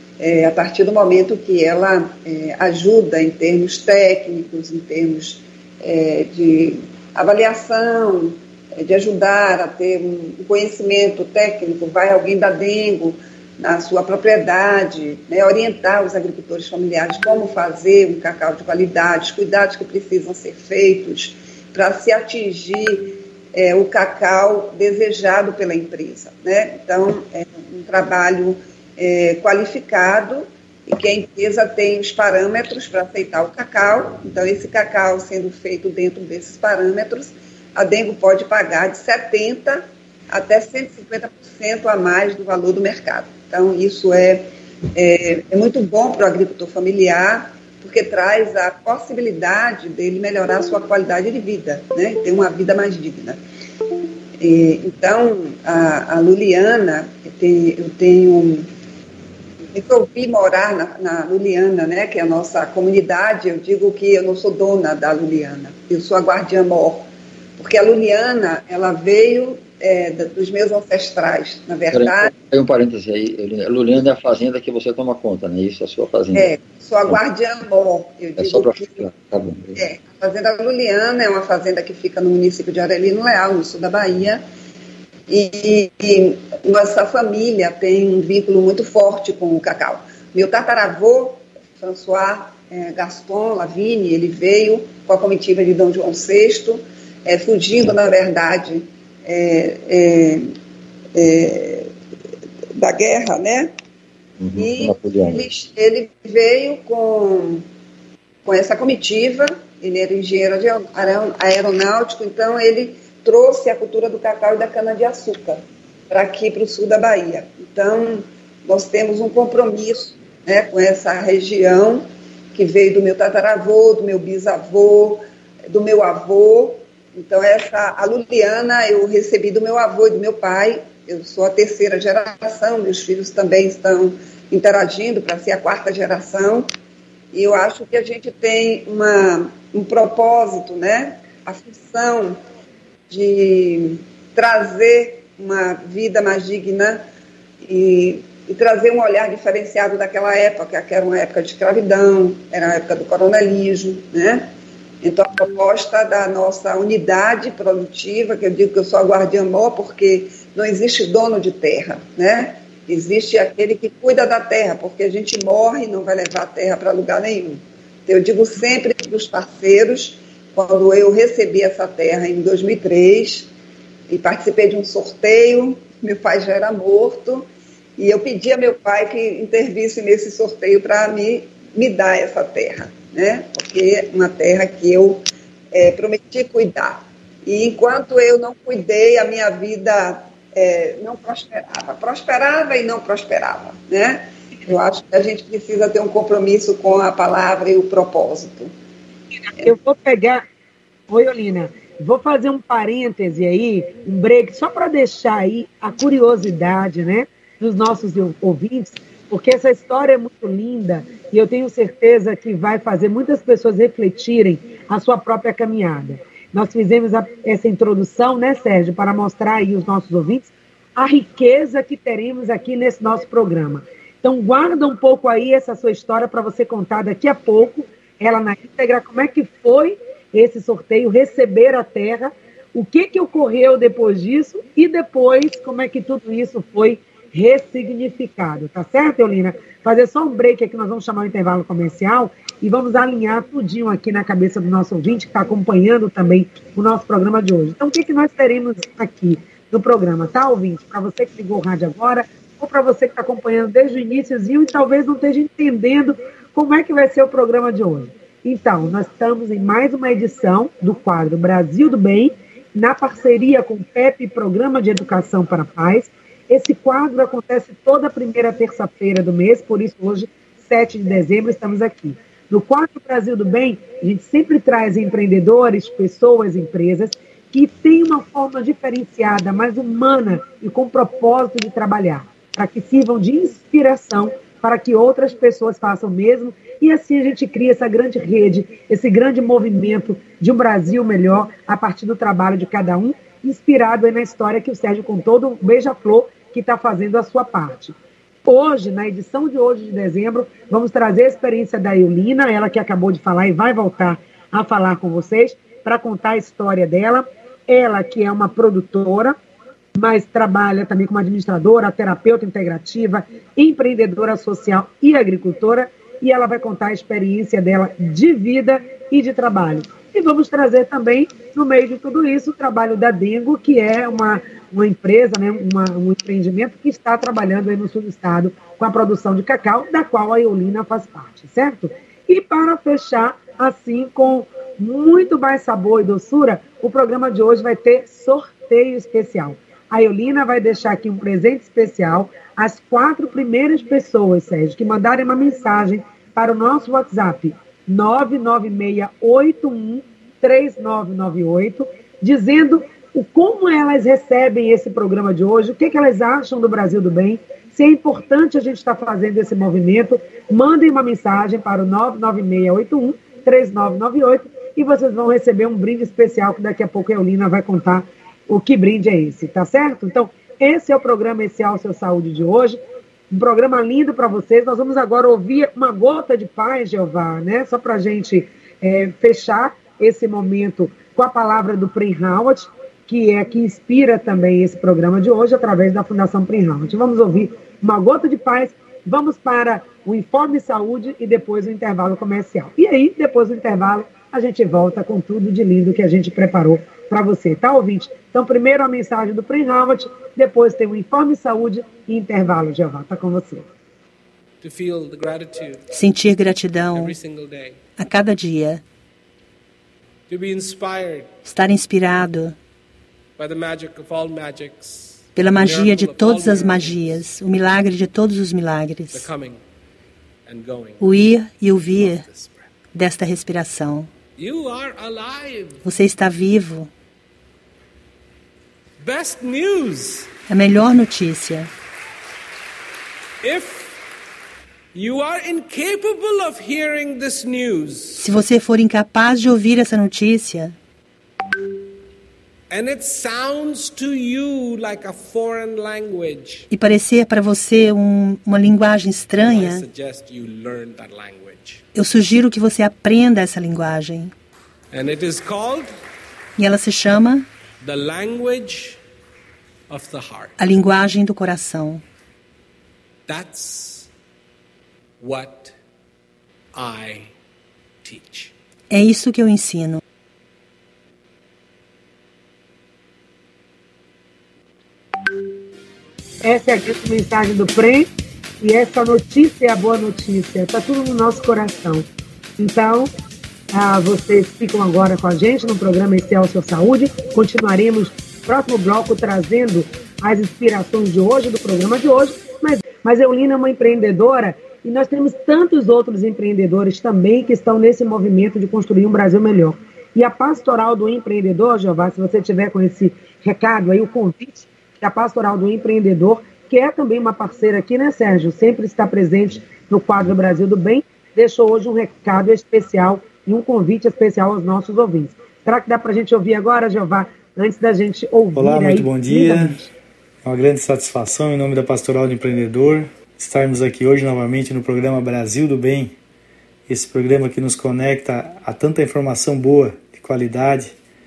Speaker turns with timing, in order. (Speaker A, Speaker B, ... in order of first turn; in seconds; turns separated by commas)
Speaker A: 0.2-53.4, Speaker A: 54.4-58.7, Speaker A: 59.7-67.1, Speaker A: 67.6-72.3, Speaker B: 71.9-76.5, Speaker A: 76.3-79.1, Speaker B: 78.4-79.8, Speaker A: 79.7-84.4, Speaker A: 85.3-100.5, Speaker A: 101.1-101.9, Speaker A: 102.7-103.7, Speaker B: 104.4-105.4, Speaker A: 104.5-107.6, Speaker A: 108.4-136.7, Speaker A: 137.3-142.4, Speaker A: 143.1-147.0, Speaker A: 147.6-154.5, Speaker A: 155.0-173.5, Speaker A: 174.1-198.7, Speaker C: 199.6-200.4, Speaker C: 201.1-297.9, Speaker C: 298.4-309.3, Speaker C: 309.9-372.8, Speaker C: 373.3-403.7, Speaker D: 404.6-405.9, Speaker E: 405.9-407.2, Speaker D: 406.9-407.8, Speaker E: 407.9-408.8, Speaker D: 410.3-411.4, Speaker E: 411.4-412.6, Speaker D: 413.4-417.2, Speaker E: 415.3-419.3, Speaker D: 419.1-419.6, Speaker D: 420.4-421.0, Speaker E: 421.0-422.3, Speaker D: 422.0-422.6, Speaker E: 422.9-424.1, Speaker D: 424.4-425.8, Speaker E: 425.8-426.9, Speaker D: 429.0-430.3, Speaker E: 430.5-431.7, Speaker D: 433.4-434.0, Speaker D: 434.9-438.2, Speaker E: 438.2-440.8, Speaker D: 442.7-446.7, Speaker E: 446.7-449.8, Speaker D: 449.4-451.8, Speaker E: 451.9-454.3, Speaker D: 454.9-455.9, Speaker E: 456.6-457.5, Speaker D: 457.8-459.0, Speaker D: 459.9-460.5, Speaker E: 460.6-462.0, Speaker D: 463.3-464.1, Speaker D: 465.2-465.7, Speaker D: 466.7-467.3, Speaker D: 468.0-468.5, Speaker E: 468.9-470.0, Speaker C: 476.4-482.1, Speaker C: 482.6-483.1, Speaker C: 483.7-519.9, Speaker F: 518.5-519.8, Speaker F: 520.4-526.1, Speaker F: 526.9-530.9